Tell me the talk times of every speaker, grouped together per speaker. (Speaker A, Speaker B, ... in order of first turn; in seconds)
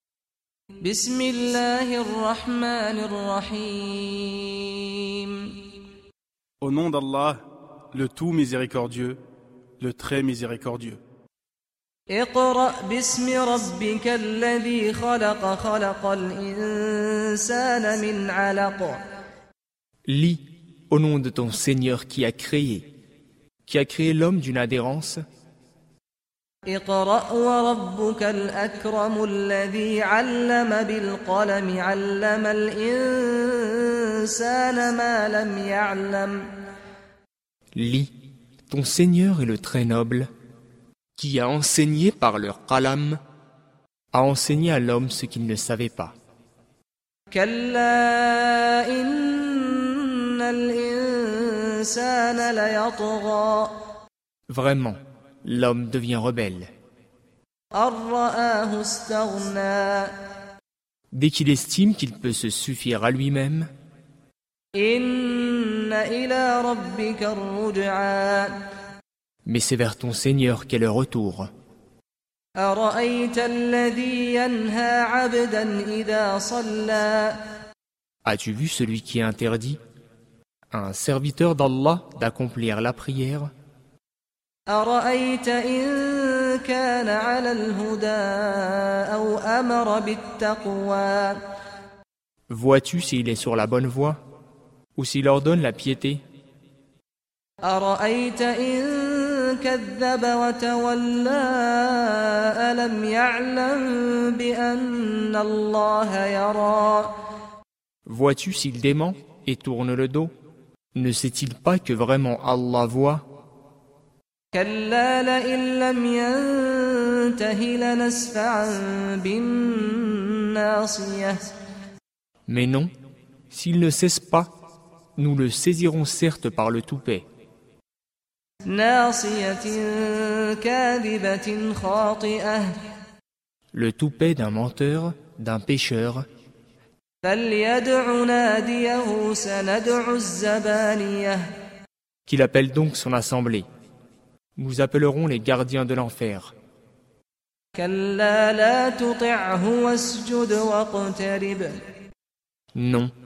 Speaker A: 0.8-5.6, 12.1-19.0, 26.7-36.5, 47.3-53.8, 57.7-60.1, 64.8-68.5, 72.6-77.4, 84.7-91.4, 97.6-107.1, 114.5-121.4, 128.6-132.8, 137.2-141.5, 147.8-151.8
Speaker B: 6.6-9.2, 9.8-11.0
Speaker C: 20.1-22.9, 23.6-25.2, 37.7-38.1, 38.7-40.3, 41.2-43.2, 44.1-46.1, 54.5-56.7, 61.1-63.7, 69.4-71.5, 78.2-79.8, 80.7-83.5, 92.5-94.2, 95.0-96.2, 108.0-110.3, 110.9-113.2, 122.5-122.9, 123.5-124.5, 125.2-127.2, 133.7-136.2, 142.3-143.7, 144.6-146.5, 152.7-153.1